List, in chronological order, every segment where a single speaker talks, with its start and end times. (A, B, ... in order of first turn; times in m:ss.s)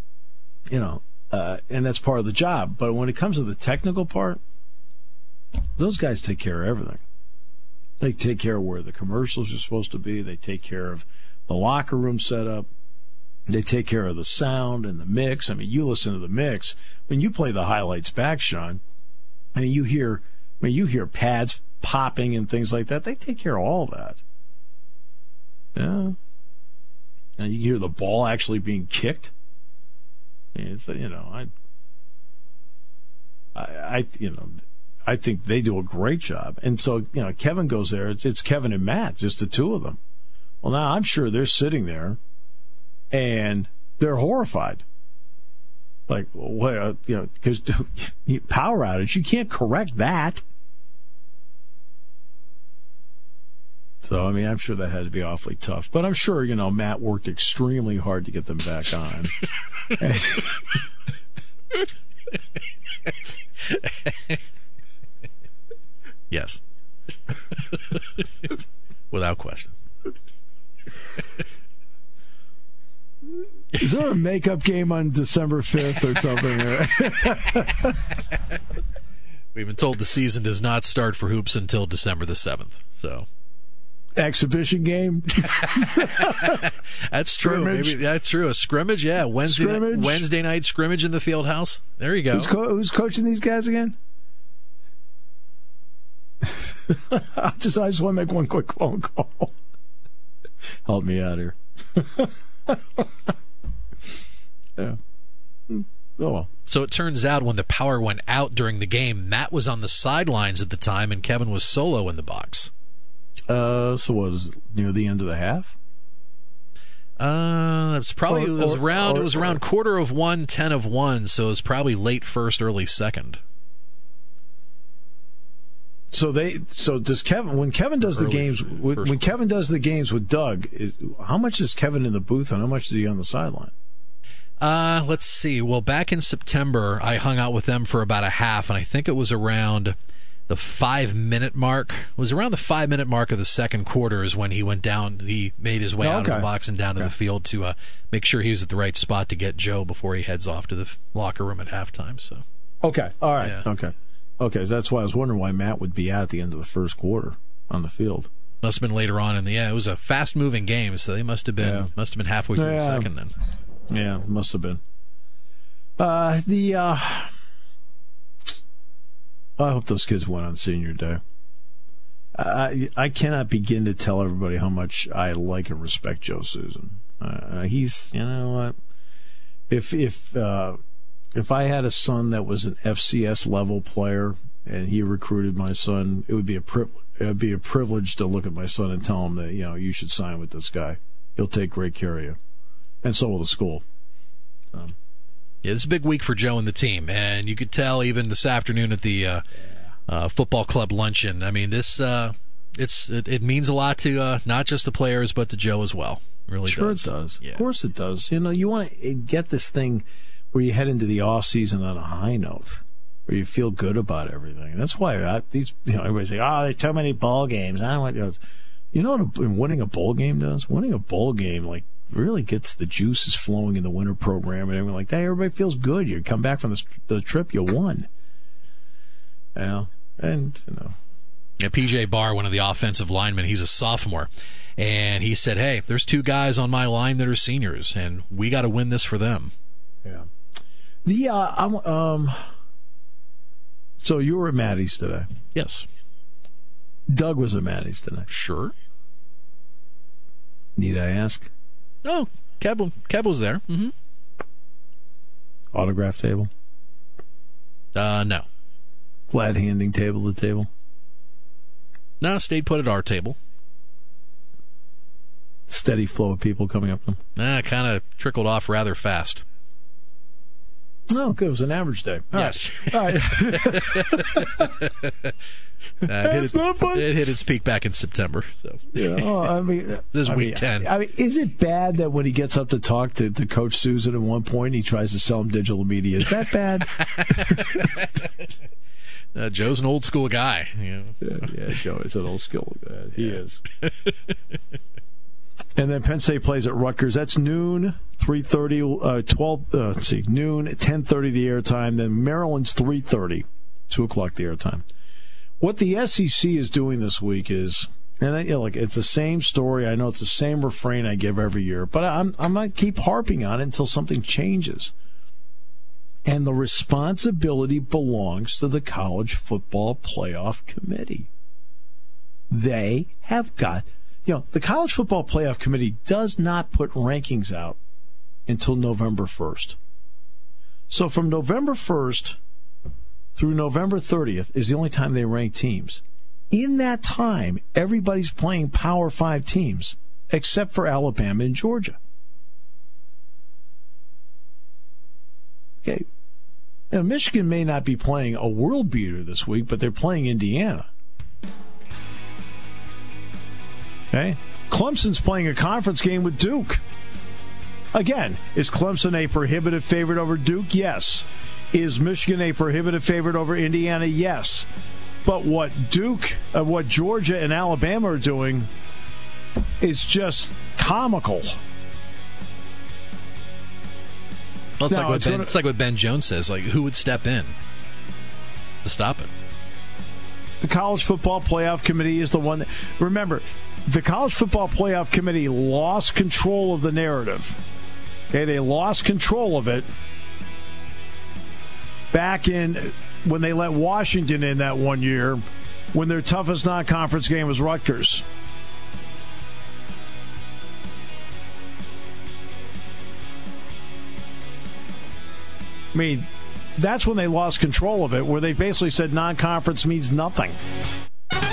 0:00.7-0:04.4 A
0:05.8-0:07.0 A
0:08.0-0:12.7 A
0:13.5-0:18.8 A
0:19.5-0:24.2 A
0:25.7-0:26.2 A
0:27.4-0:29.3 A
0:30.5-0:31.5 A
0:33.5-0:40.0 A
0:40.6-0:42.2 A
0:43.1-0:44.8 A
0:46.1-0:50.4 A
0:54.0-0:59.3 A
1:00.0-1:00.6 A
1:03.7-1:04.4 B
1:06.3-1:06.6 B
1:09.1-1:09.7 B
1:13.7-1:18.0 A
1:19.5-1:23.2 B
1:24.2-1:26.6 A
1:26.0-1:32.5 B
1:27.4-1:28.0 A
1:29.4-1:30.2 A
1:32.3-1:34.0 A
1:36.5-1:39.5 A
1:40.8-1:43.1 A
1:45.7-1:46.5 A
1:46.7-1:52.7 B
1:53.5-1:55.7 A
1:57.2-2:03.4 B
1:58.3-1:59.6 A
2:06.1-2:13.7 A
2:08.0-2:09.3 B
2:14.6-2:19.9 B
2:20.5-2:32.4 B
2:26.0-2:26.5 A
2:32.8-2:38.3 A
2:33.4-2:33.6 B
2:38.6-2:43.3 B
2:41.6-2:41.9 A
2:42.5-2:43.1 A
2:43.9-2:44.8 A
2:46.0-2:47.3 A
2:49.6-2:51.2 A
2:52.4-2:58.7 A
2:59.7-3:00.8 A
3:01.3-3:12.4 A
3:13.0-3:13.8 A
3:15.6-3:19.4 B
3:20.1-3:27.6 B
3:26.6-3:38.4 A
3:38.9-3:48.1 A
3:49.5-3:50.9 A
3:51.6-3:59.5 B
4:01.0-4:02.4 A
4:04.0-4:05.3 A
4:05.5-4:05.8 B
4:07.1-4:08.3 A
4:08.3-4:08.7 B
4:10.8-4:11.5 A
4:12.0-4:13.9 B
4:15.7-4:16.5 A
4:17.9-4:18.4 B
4:19.3-4:20.7 A
4:22.2-4:23.4 B
4:25.7-4:27.2 A
4:27.4-4:29.4 B
4:31.1-4:34.7 A
4:32.3-4:35.3 B
4:36.0-4:39.4 B
4:36.1-4:37.1 A
4:38.9-4:47.9 A
4:40.1-4:40.9 B
4:47.0-4:48.3 B
4:49.3-4:51.3 B
4:51.2-4:53.6 A
4:53.8-4:54.2 B
4:55.8-5:04.8 A
5:05.6-5:14.9 A
5:16.2-5:21.3 A
5:22.5-5:27.8 A
5:28.5-5:29.8 A
5:30.9-5:32.4 A
5:33.3-5:42.0 A
5:46.9-5:50.9 A
5:54.1-5:56.8 A
5:57.9-6:04.7 A
6:05.2-6:08.7 A
6:09.8-6:11.6 A
6:14.8-6:17.5 B
6:14.9-6:15.5 A
6:18.8-6:19.3 B
6:20.6-6:27.6 A
6:28.3-6:29.8 A
6:32.1-6:35.4 A
6:35.9-6:38.2 A
6:45.9-6:50.5 A